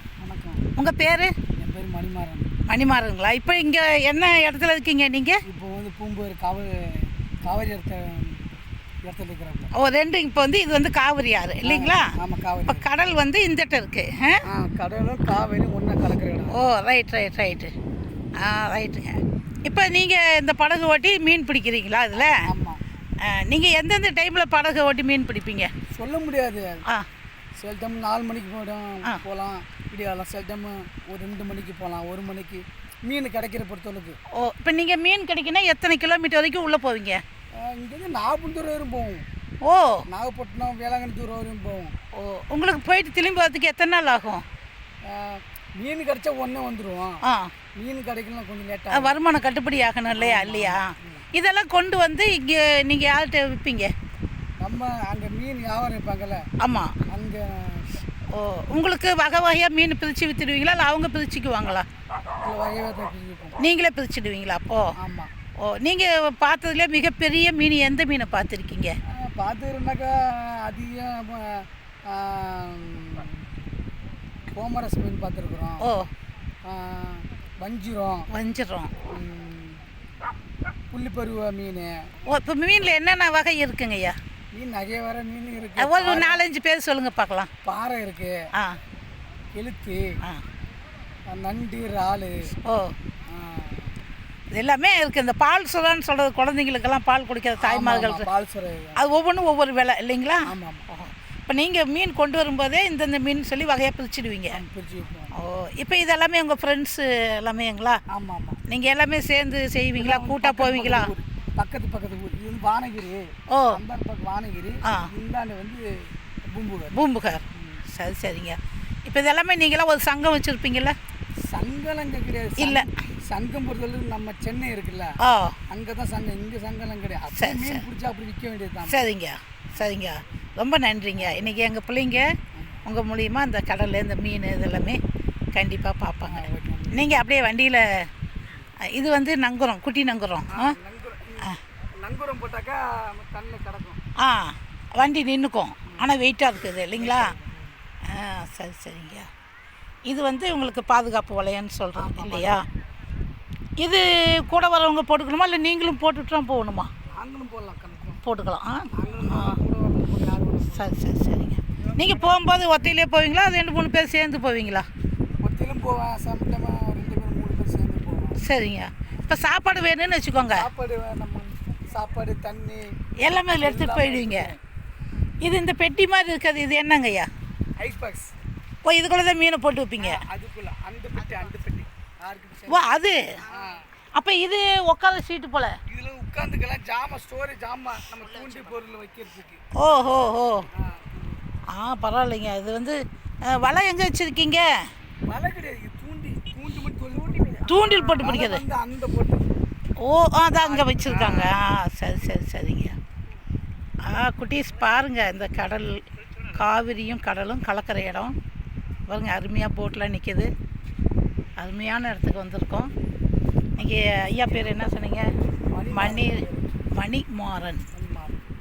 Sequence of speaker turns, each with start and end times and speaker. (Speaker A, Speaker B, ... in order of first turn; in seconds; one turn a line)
Speaker A: 0.2-0.7
Speaker B: 0.8-1.3
Speaker A: 1.6-2.5
Speaker B: 2.7-5.4
Speaker A: 5.5-9.7
Speaker B: 9.7-12.1
Speaker A: 11.6-12.8
Speaker B: 12.7-14.4
Speaker A: 14.5-16.6
Speaker B: 16.5-17.7
Speaker B: 18.4-22.4
Speaker A: 22.4-22.8
Speaker B: 23.2-25.7
Speaker A: 25.9-26.8
Speaker A: 27.6-34.2
Speaker B: 34.4-37.2
Speaker A: 37.6-39.2
Speaker B: 39.6-40.0
Speaker A: 40.1-41.9
Speaker B: 42.2-44.4
Speaker A: 45.1-47.2
Speaker A: 47.8-49.2
Speaker B: 48.9-53.9
Speaker A: 50.1-51.3
Speaker A: 54.6-56.4
Speaker B: 56.6-56.9
Speaker A: 57.1-58.0
Speaker B: 58.3-61.9
Speaker A: 62.4-63.6
Speaker B: 63.6-64.8
Speaker A: 65.0-65.3
Speaker B: 65.6-68.9
Speaker A: 69.1-73.5
Speaker A: 74.5-75.8
Speaker A: 76.7-78.3
Speaker B: 78.3-78.9
Speaker A: 79.1-79.8
Speaker A: 80.9-81.9
Speaker B: 82.3-84.2
Speaker A: 84.5-86.4
Speaker B: 85.8-87.5
Speaker A: 87.6-88.3
Speaker A: 89.5-90.1
Speaker A: 91.3-92.3
Speaker B: 92.6-92.9
Speaker A: 93.3-93.9
Speaker B: 94.5-98.3
Speaker A: 97.6-99.0
Speaker B: 99.0-104.6
Speaker A: 100.5-100.8
Speaker A: 104.5-105.3
Speaker B: 105.4-108.0
Speaker A: 108.1-108.6
Speaker B: 108.7-111.1
Speaker A: 110.0-115.9
Speaker B: 113.5-113.8
Speaker A: 116.5-117.0
Speaker B: 116.9-120.9
Speaker A: 121.5-125.2
Speaker B: 122.6-122.9
Speaker B: 125.2-125.5
Speaker A: 125.7-129.1
Speaker B: 127.3-127.8
Speaker B: 128.9-132.3
Speaker A: 131.2-131.5
Speaker A: 132.6-132.8
Speaker B: 132.8-135.0
Speaker B: 135.5-137.8
Speaker A: 136.3-137.1
Speaker B: 138.9-140.7
Speaker A: 140.5-144.0
Speaker B: 144.2-147.3
Speaker A: 145.9-146.1
Speaker A: 146.9-147.7
Speaker B: 148.0-149.3
Speaker B: 150.1-152.6
Speaker A: 152.0-152.6
Speaker B: 153.8-156.9
Speaker A: 157.1-158.2
Speaker B: 158.2-159.6
Speaker A: 158.9-161.0
Speaker B: 160.7-164.9
Speaker A: 165.4-168.4
Speaker B: 168.4-170.7
Speaker A: 170.5-172.8
Speaker B: 173.2-174.5
Speaker A: 173.5-174.6
Speaker B: 175.4-177.3
Speaker A: 177.8-178.3
Speaker B: 178.8-180.2
Speaker A: 180.0-183.9
Speaker B: 182.7-183.2
Speaker B: 184.2-185.7
Speaker A: 185.9-189.6
Speaker B: 189.7-190.7
Speaker A: 190.7-191.4
Speaker B: 191.7-193.0
Speaker B: 193.5-194.7
Speaker A: 195.3-199.5
Speaker B: 197.6-198.6
Speaker B: 200.0-202.9
Speaker A: 200.6-201.5
Speaker B: 204.0-208.3
Speaker B: 209.1-210.5
Speaker B: 211.6-212.9
Speaker B: 213.8-215.2
Speaker A: 215.7-216.7
Speaker B: 215.9-216.4
Speaker B: 216.9-217.8
Speaker A: 217.9-218.4